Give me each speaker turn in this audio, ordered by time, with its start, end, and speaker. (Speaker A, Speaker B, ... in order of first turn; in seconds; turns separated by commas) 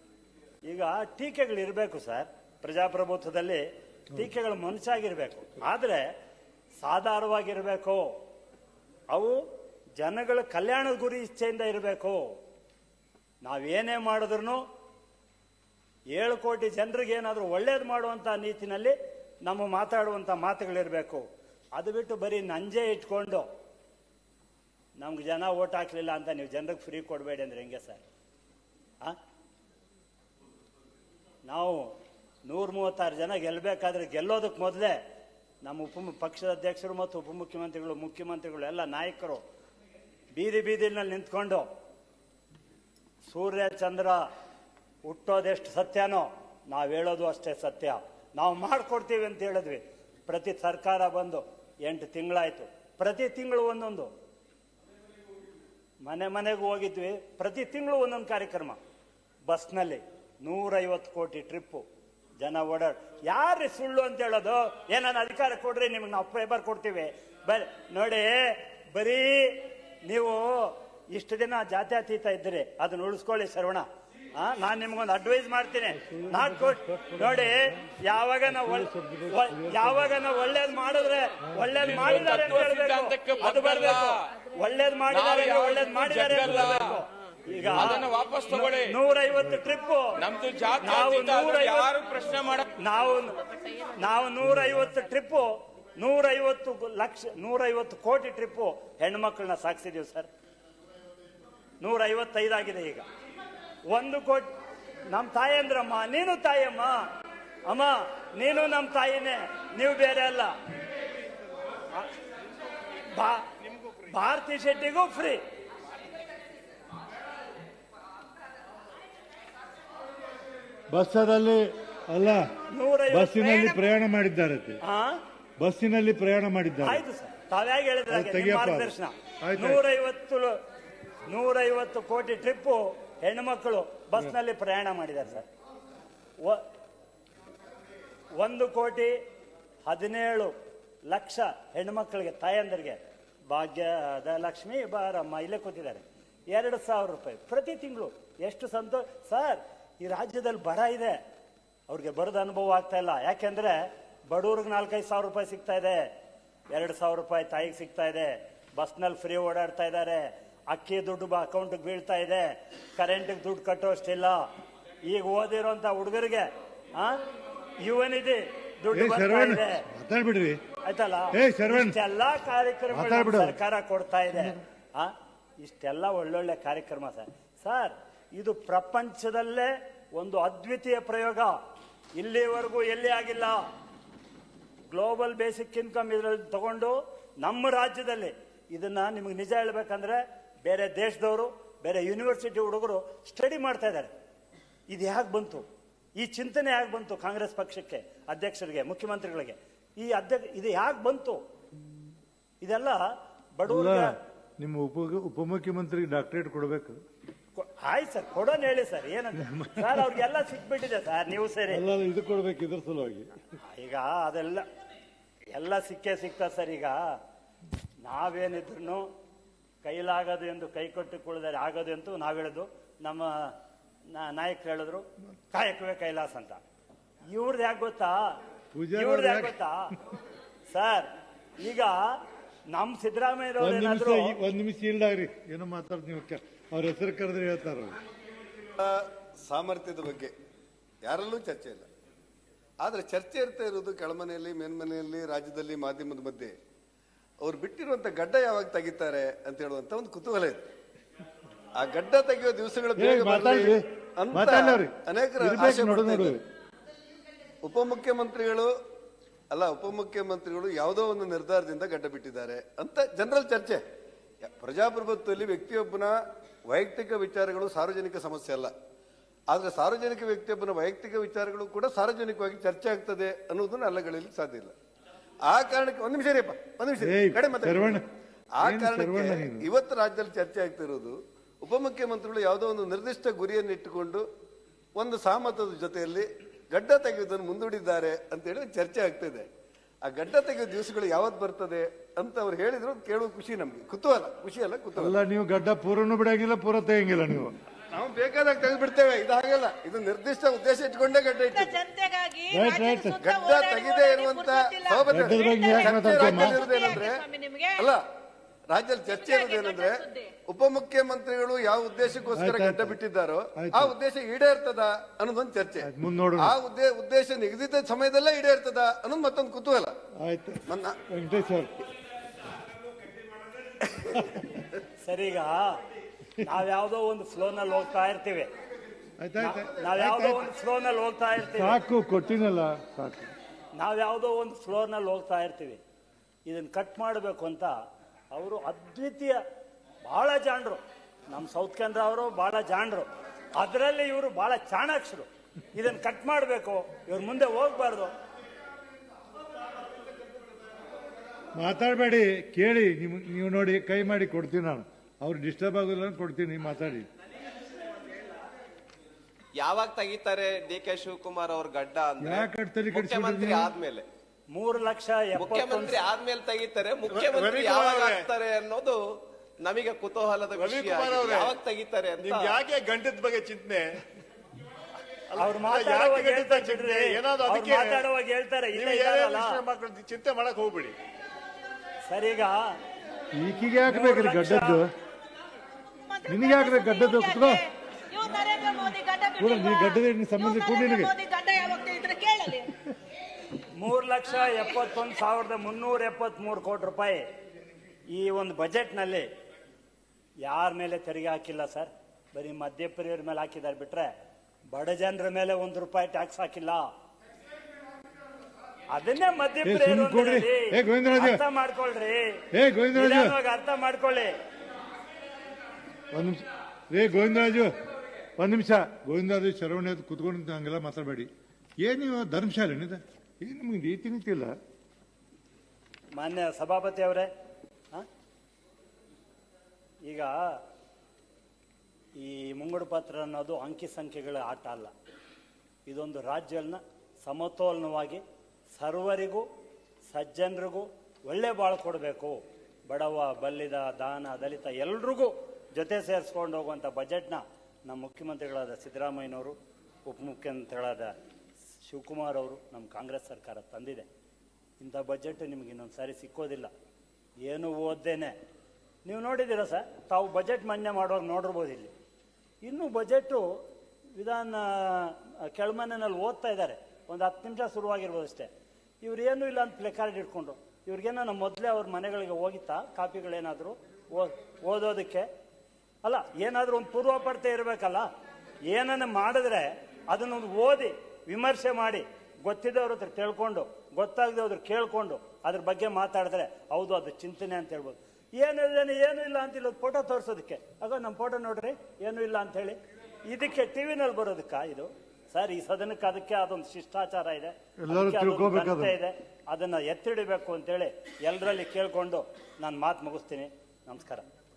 Speaker A: 0.7-6.1, Speaker A: 6.8-8.2, Speaker A: 9.1-9.4, Speaker A: 10.0-12.3, Speaker A: 13.4-14.6, Speaker A: 16.1-21.2, Speaker A: 21.8-23.5, Speaker A: 25.0-28.0, Speaker A: 31.5-31.9, Speaker A: 32.5-35.0, Speaker A: 35.6-39.4, Speaker A: 40.4-41.7, Speaker A: 43.3-44.2, Speaker A: 45.0-54.1, Speaker A: 56.0-58.8, Speaker A: 59.5-61.9, Speaker A: 62.4-73.8, Speaker A: 74.4-90.2, Speaker B: 75.9-77.8, Speaker B: 78.5-80.2, Speaker B: 81.5-82.5, Speaker C: 81.8-84.2, Speaker C: 85.1-87.0, Speaker B: 87.5-88.0, Speaker C: 87.7-89.0, Speaker C: 90.2-92.7, Speaker A: 90.8-92.0, Speaker A: 92.8-93.4, Speaker A: 94.0-100.3, Speaker B: 94.5-94.9, Speaker A: 101.8-103.0, Speaker A: 103.9-104.5, Speaker A: 105.1-107.0, Speaker A: 107.7-110.5, Speaker A: 113.1-113.5, Speaker A: 114.0-115.4, Speaker B: 120.9-122.5, Speaker A: 122.7-123.9, Speaker B: 123.1-124.8, Speaker A: 124.8-125.2, Speaker B: 125.6-127.0, Speaker A: 126.8-130.6, Speaker B: 128.1-129.8, Speaker A: 131.3-135.5, Speaker A: 136.4-136.7, Speaker A: 138.4-139.2, Speaker A: 139.9-140.5, Speaker A: 141.1-151.2, Speaker A: 151.9-156.1, Speaker A: 156.7-164.4, Speaker A: 165.1-167.2, Speaker A: 167.8-169.9, Speaker B: 168.9-170.6, Speaker A: 170.8-181.6, Speaker B: 171.3-172.0, Speaker B: 172.9-173.6, Speaker A: 182.2-183.6, Speaker A: 184.9-194.1, Speaker A: 194.9-195.7, Speaker A: 196.2-201.4, Speaker A: 202.6-204.2, Speaker B: 203.7-207.0, Speaker A: 207.6-211.8, Speaker B: 209.4-210.2, Speaker B: 211.7-213.4, Speaker A: 213.6-214.7, Speaker A: 215.5-217.2, Speaker A: 218.0-219.1, Speaker A: 219.8-223.5, Speaker A: 224.1-226.6, Speaker A: 227.3-228.4, Speaker B: 228.7-229.6, Speaker A: 228.9-229.9, Speaker A: 230.7-231.1, Speaker A: 231.6-232.2, Speaker A: 232.7-234.4, Speaker B: 233.6-238.0, Speaker D: 238.8-240.3, Speaker D: 241.0-241.9, Speaker D: 242.8-246.6, Speaker D: 247.4-250.6, Speaker D: 251.8-256.4, Speaker B: 253.0-256.4, Speaker D: 257.6-258.7, Speaker D: 259.5-263.8, Speaker D: 264.4-266.1, Speaker D: 266.7-268.7, Speaker D: 269.5-274.7, Speaker D: 275.5-278.0, Speaker B: 277.0-278.1, Speaker D: 278.6-284.2, Speaker B: 278.6-279.7, Speaker D: 285.0-289.5, Speaker D: 290.0-295.2, Speaker B: 295.0-297.6, Speaker D: 297.9-301.8, Speaker E: 301.5-307.9, Speaker B: 302.5-303.2, Speaker D: 303.2-307.2, Speaker B: 305.1-306.6, Speaker D: 307.8-308.0, Speaker D: 308.7-319.9, Speaker E: 309.1-310.3, Speaker B: 312.4-313.0, Speaker B: 313.6-313.9, Speaker B: 315.8-316.5, Speaker B: 320.2-321.9, Speaker D: 320.7-321.0, Speaker B: 323.8-324.6, Speaker A: 325.0-325.8, Speaker A: 326.4-328.5, Speaker B: 329.2-330.5, Speaker A: 329.4-331.8, Speaker B: 331.5-333.3, Speaker A: 333.8-335.8, Speaker A: 336.5-337.7, Speaker A: 338.3-339.4, Speaker A: 340.0-348.1, Speaker B: 351.6-357.1, Speaker F: 359.6-364.1, Speaker B: 362.2-363.7, Speaker A: 364.5-366.0, Speaker F: 365.4-369.0, Speaker G: 367.1-368.3, Speaker F: 369.6-372.6, Speaker G: 370.6-371.6, Speaker G: 372.2-374.0, Speaker A: 375.4-379.6, Speaker G: 375.4-378.1, Speaker G: 378.7-380.9, Speaker A: 382.1-382.8, Speaker B: 383.3-384.9, Speaker A: 383.9-384.9, Speaker E: 385.7-392.7, Speaker B: 386.3-387.6, Speaker B: 389.4-391.1, Speaker A: 393.8-397.3, Speaker A: 398.1-399.3, Speaker A: 400.4-404.1, Speaker A: 404.7-406.9, Speaker A: 408.9-414.4, Speaker B: 409.6-411.4, Speaker B: 412.5-413.4, Speaker B: 416.1-417.8, Speaker B: 418.4-421.3, Speaker B: 421.8-424.5, Speaker A: 426.1-427.3, Speaker A: 430.1-430.6, Speaker A: 432.2-434.9, Speaker A: 435.9-438.2, Speaker A: 438.8-439.5, Speaker A: 440.1-451.1, Speaker A: 451.8-454.1, Speaker A: 454.8-456.7, Speaker A: 457.4-458.4, Speaker A: 459.1-461.9, Speaker A: 462.6-463.6, Speaker A: 464.1-468.5, Speaker A: 469.0-475.3, Speaker A: 476.0-478.1, Speaker A: 478.7-504.2, Speaker B: 497.8-499.0